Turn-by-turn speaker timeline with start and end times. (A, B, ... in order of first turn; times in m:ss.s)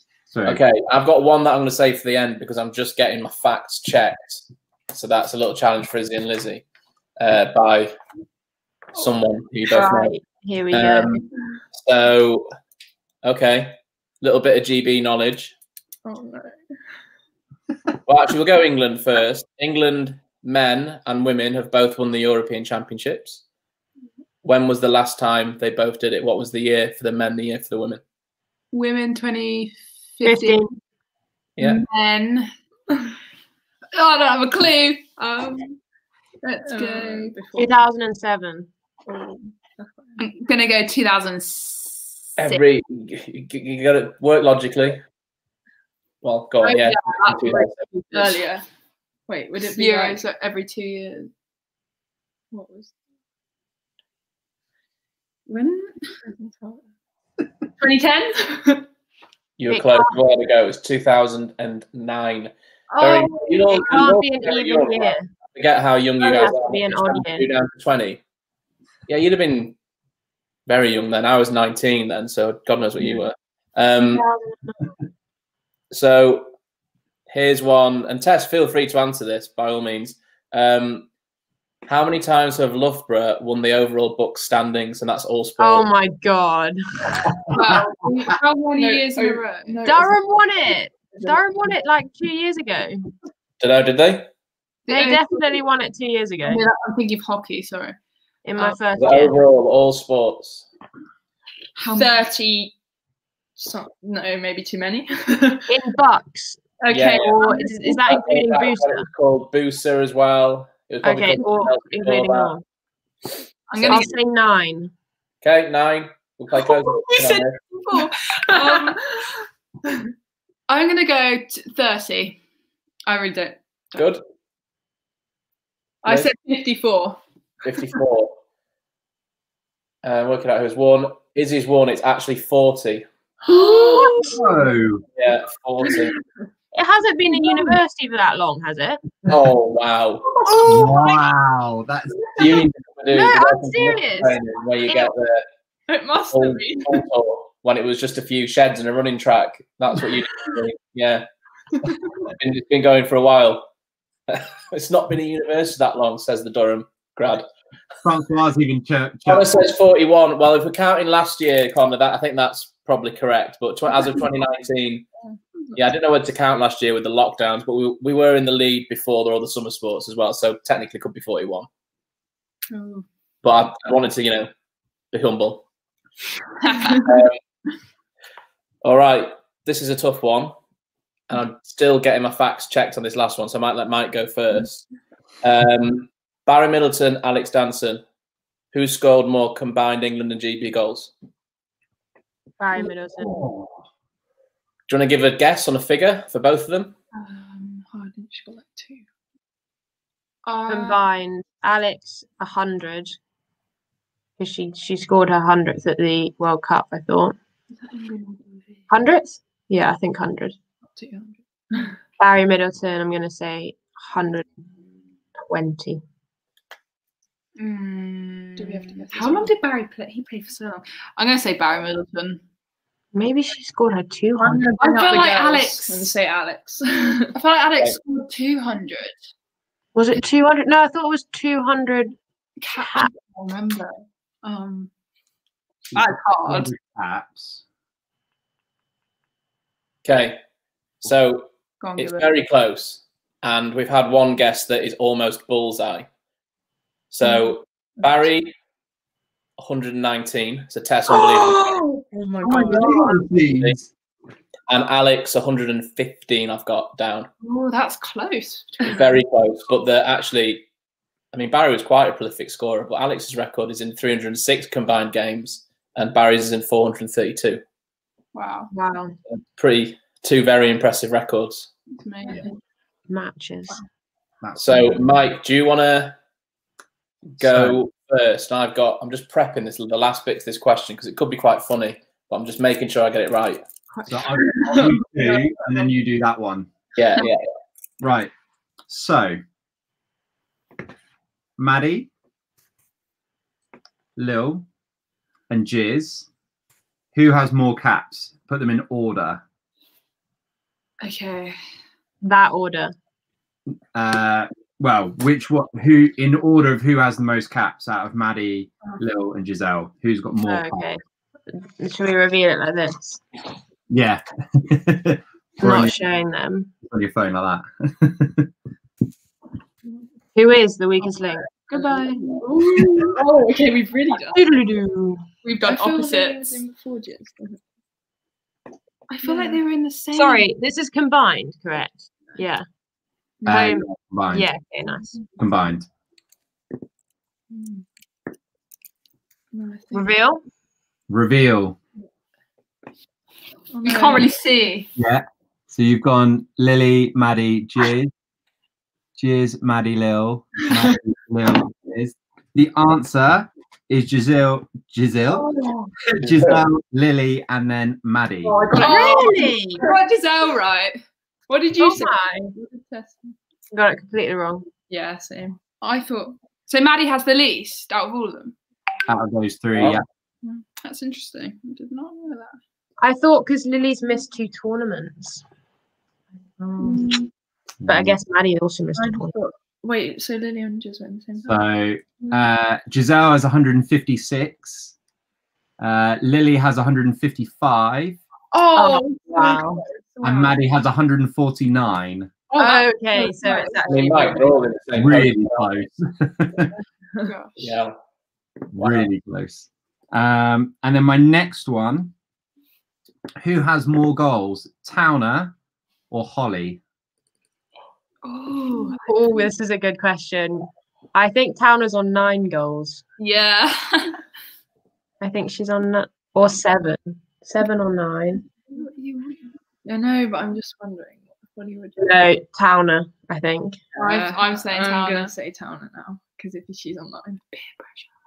0:00.3-0:00.6 A
0:00.4-0:06.6 B
0:07.2-0:07.9 B
0:09.0-0:10.2 B
0:09.7-0:11.2 C
0:10.7-0:12.5 B
0:13.2-0:15.6 B
0:16.0-0:16.6 D
0:18.1-0:23.4 B
0:24.4-0:28.0 B
0:28.7-0:30.7 E
0:30.2-0:30.8 C
0:31.6-0:31.8 B
0:31.6-0:32.5 E
0:33.9-0:35.8 E
0:36.4-0:37.6 E
0:36.6-0:37.8 D
0:37.6-0:38.7 C
0:39.1-0:40.2 D
0:40.2-0:42.6 E
0:42.4-0:45.0 B
0:46.2-0:47.9 B
0:46.6-0:48.4 E
0:47.5-0:48.6 D
0:49.3-0:50.2 D
0:49.5-0:51.3 E
0:52.5-0:53.0 D
0:55.5-0:56.1 E
0:56.2-0:56.8 D
0:57.8-0:58.9 D
0:59.6-1:08.2 B
0:59.7-1:00.2 C
1:02.9-1:03.6 D
1:03.7-1:05.3 C
1:06.2-1:07.5 C
1:09.1-1:09.8 B
1:10.7-1:14.2 B
1:14.0-1:14.9 C
1:15.9-1:16.5 B
1:17.3-1:21.1 B
1:21.9-1:25.9 B
1:25.6-1:27.3 C
1:27.2-1:27.8 A
1:27.5-1:29.8 E
1:28.8-1:30.2 D
1:29.8-1:33.1 C
1:31.1-1:31.4 D
1:33.6-1:34.3 B
1:34.9-1:35.6 E
1:34.9-1:36.6 C
1:36.4-1:38.0 E
1:38.4-1:39.4 C
1:39.0-1:40.7 B
1:41.8-1:42.2 E
1:41.9-1:42.8 D
1:43.6-1:45.7 D
1:45.7-1:46.6 C
1:46.9-1:47.9 D
1:46.9-1:52.6 B
1:47.1-1:49.1 C
1:51.0-1:52.6 C
1:53.7-1:54.1 E
1:53.8-1:54.1 B
1:53.9-1:54.9 C
1:55.4-1:57.6 B
1:57.2-1:59.0 E
1:58.0-1:59.2 D
2:00.7-2:02.4 E
2:03.1-2:04.0 E
2:04.0-2:04.2 B
2:06.0-2:06.3 B
2:06.0-2:07.2 D
2:07.6-2:08.4 B
2:10.0-2:13.1 B
2:13.5-2:14.3 E
2:13.5-2:14.4 C
2:13.6-2:14.1 D
2:14.3-2:15.0 A
2:15.2-2:16.2 B
2:16.7-2:19.1 C
2:19.2-2:20.3 B
2:20.5-2:22.7 A
2:22.4-2:25.4 B
2:23.1-2:25.1 C
2:25.9-2:27.0 D
2:26.3-2:31.3 B
2:32.2-2:33.7 B
2:34.3-2:37.5 B
2:38.0-2:39.7 A
2:39.3-2:45.1 B
2:45.7-2:51.7 B
2:52.7-2:53.0 E
2:53.4-2:54.5 B
2:55.1-2:55.6 B
2:56.6-2:57.1 E
2:56.9-2:57.4 B
2:58.8-3:00.6 B
3:01.3-3:04.9 B
3:05.4-3:08.0 B
3:08.7-3:11.1 B
3:12.6-3:13.4 C
3:13.2-3:13.7 A
3:14.9-3:17.0 B
3:17.2-3:17.8 E
3:17.9-3:19.0 D
3:20.5-3:21.0 E
3:20.7-3:23.2 C
3:24.4-3:27.4 C
3:27.8-3:28.8 E
3:28.9-3:30.6 C
3:31.0-3:32.0 D
3:32.2-3:34.5 C
3:35.5-3:36.0 C
3:37.6-3:42.4 E
3:38.6-3:39.5 D
3:43.1-3:44.7 C
3:44.4-3:47.3 D
3:44.8-3:46.1 E
3:47.4-3:49.3 E
3:50.0-3:52.2 C
3:52.6-3:54.9 E
3:55.9-3:57.6 A
3:56.0-3:56.7 E
4:00.0-4:00.4 B
4:01.0-4:06.1 B
4:01.8-4:02.3 E
4:07.1-4:08.5 B
4:09.6-4:11.8 B
4:11.3-4:13.0 E
4:12.4-4:12.8 D
4:12.4-4:13.9 A
4:14.7-4:17.3 B
4:17.4-4:19.2 E
4:18.8-4:20.7 B
4:21.3-4:27.6 B
4:28.3-4:28.7 E
4:28.7-4:29.2 C
4:29.3-4:31.7 B
4:31.9-4:32.5 E
4:33.1-4:33.8 C
4:34.4-4:35.2 A
4:34.6-4:36.2 B
4:37.4-4:37.8 A
4:37.4-4:43.6 B
4:44.1-4:46.7 A
4:44.6-4:45.0 D
4:47.0-4:47.5 B
4:48.0-4:48.3 A
4:48.9-4:49.4 A
4:51.6-4:52.1 A
4:54.2-4:54.7 A
4:55.5-4:56.3 A
4:57.1-4:59.4 A
5:01.0-5:01.6 E
5:02.2-5:02.9 C
5:03.9-5:10.9 A
5:10.5-5:11.0 C
5:11.5-5:13.2 C
5:13.9-5:16.0 A
5:15.6-5:16.7 C
5:16.8-5:18.5 A
5:20.4-5:22.0 C
5:21.5-5:22.4 E
5:22.4-5:24.4 D
5:24.3-5:25.3 C
5:25.4-5:26.6 E
5:25.6-5:27.6 D
5:29.1-5:30.5 E
5:29.2-5:29.6 D
5:30.1-5:32.6 C
5:33.5-5:34.5 A
5:33.5-5:35.2 C
5:35.4-5:35.9 A
5:37.5-5:37.8 D
5:39.5-5:40.1 D
5:39.9-5:40.4 C
5:41.1-5:41.8 A
5:43.7-5:44.3 D
5:43.8-5:44.9 E
5:45.0-5:48.1 A
5:49.2-5:55.5 A
5:55.3-5:55.9 D
5:56.2-5:58.7 A
5:56.3-5:56.5 B
5:58.4-5:59.9 D
5:58.7-6:01.0 E
5:58.8-5:59.8 C
6:01.5-6:03.3 D
6:01.8-6:02.5 C
6:03.7-6:04.7 C
6:04.9-6:05.6 D
6:05.8-6:08.6 E
6:09.1-6:10.0 A
6:09.8-6:10.0 B
6:10.8-6:12.6 E
6:13.0-6:15.4 C
6:16.6-6:17.2 C
6:16.8-6:17.3 D
6:17.8-6:18.2 A
6:17.9-6:19.3 C
6:19.0-6:21.6 D
6:21.4-6:25.0 A
6:25.8-6:28.2 A
6:28.5-6:30.6 D
6:28.8-6:29.8 C
6:30.2-6:32.3 A
6:32.5-6:33.7 E
6:32.6-6:34.5 C
6:33.1-6:33.9 D
6:33.9-6:35.9 B
6:35.0-6:36.7 A
6:37.2-6:37.7 E
6:37.6-6:38.0 B
6:38.7-6:42.1 A
6:38.8-6:39.1 B
6:43.4-6:45.6 A
6:46.1-6:46.8 A
6:48.2-6:49.0 E
6:49.0-6:53.0 C
6:53.2-6:54.2 E
6:55.2-6:58.4 C
6:58.7-6:59.5 E
6:59.9-7:02.2 D
7:02.0-7:03.8 C
7:04.0-7:07.4 D
7:04.0-7:05.3 E
7:07.6-7:08.1 E